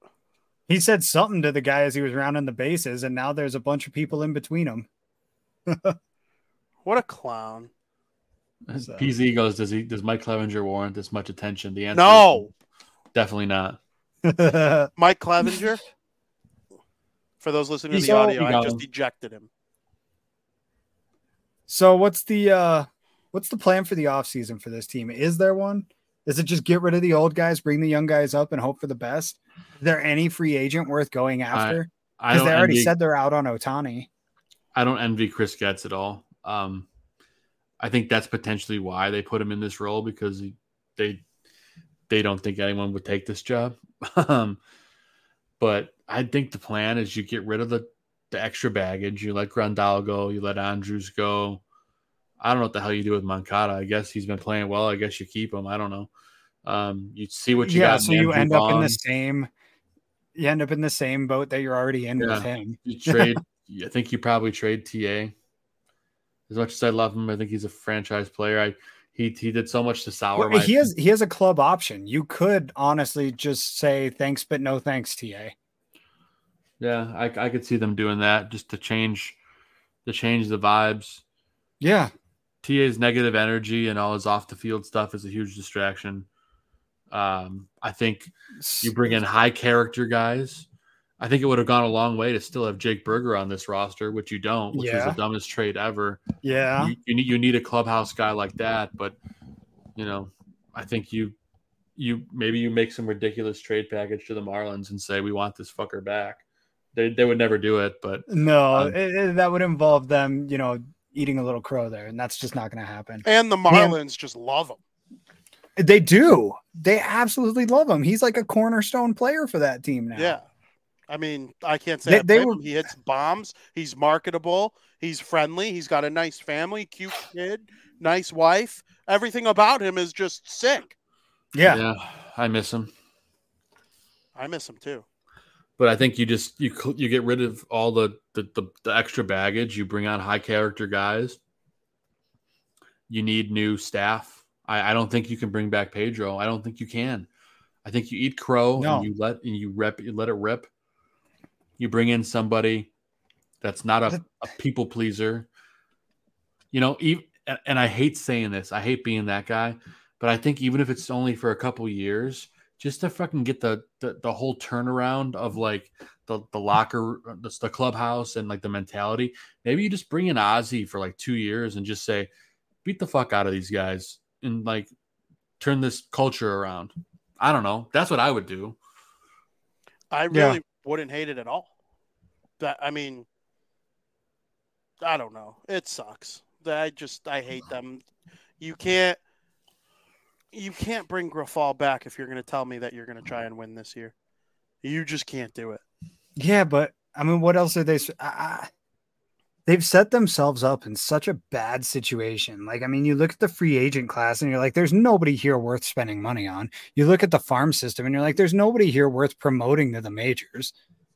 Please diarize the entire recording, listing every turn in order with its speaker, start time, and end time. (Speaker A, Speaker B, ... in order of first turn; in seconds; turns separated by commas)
Speaker A: 0.7-4.9, Speaker A: 5.7-6.0, Speaker B: 6.8-7.7, Speaker C: 8.7-12.4, Speaker A: 8.8-9.1, Speaker B: 11.9-12.5, Speaker C: 13.1-13.8, Speaker A: 14.2-14.9, Speaker B: 15.0-15.8, Speaker B: 17.4-19.5, Speaker A: 17.9-18.4, Speaker C: 18.4-18.8, Speaker A: 21.7-34.1, Speaker C: 31.5-32.9, Speaker C: 34.7-36.9, Speaker C: 37.8-41.2, Speaker C: 42.1-44.6, Speaker C: 45.6-51.6, Speaker C: 52.4-56.1, Speaker C: 56.6-59.0, Speaker A: 57.6-59.5, Speaker A: 60.4-63.4, Speaker C: 62.2-65.3, Speaker C: 66.5-70.8, Speaker A: 70.4-75.5, Speaker C: 76.8-79.4, Speaker C: 80.0-81.2, Speaker A: 81.8-82.1, Speaker C: 82.6-86.3, Speaker C: 87.1-90.7, Speaker A: 88.6-89.2, Speaker C: 91.2-96.2, Speaker A: 94.7-95.2, Speaker A: 96.4-96.9, Speaker C: 96.8-99.2, Speaker C: 100.0-101.3, Speaker C: 102.0-106.4, Speaker C: 106.9-109.0, Speaker A: 108.3-114.0, Speaker B: 113.2-114.8, Speaker A: 115.8-120.4, Speaker B: 120.2-120.5, Speaker B: 121.1-130.9, Speaker A: 122.1-122.6, Speaker A: 131.5-131.8, Speaker C: 131.7-132.9, Speaker B: 134.4-135.1, Speaker C: 135.8-141.4, Speaker C: 143.1-147.3, Speaker C: 147.8-150.7, Speaker A: 148.8-149.1, Speaker C: 151.8-152.9, Speaker C: 153.6-155.5, Speaker C: 156.7-172.3, Speaker C: 172.8-174.9, Speaker C: 175.6-178.8, Speaker B: 180.1-181.7, Speaker A: 180.3-180.6, Speaker B: 182.6-183.3, Speaker B: 185.0-188.0, Speaker B: 188.6-189.2, Speaker B: 190.5-194.1, Speaker B: 194.8-195.8, Speaker A: 196.4-198.7, Speaker A: 199.7-210.7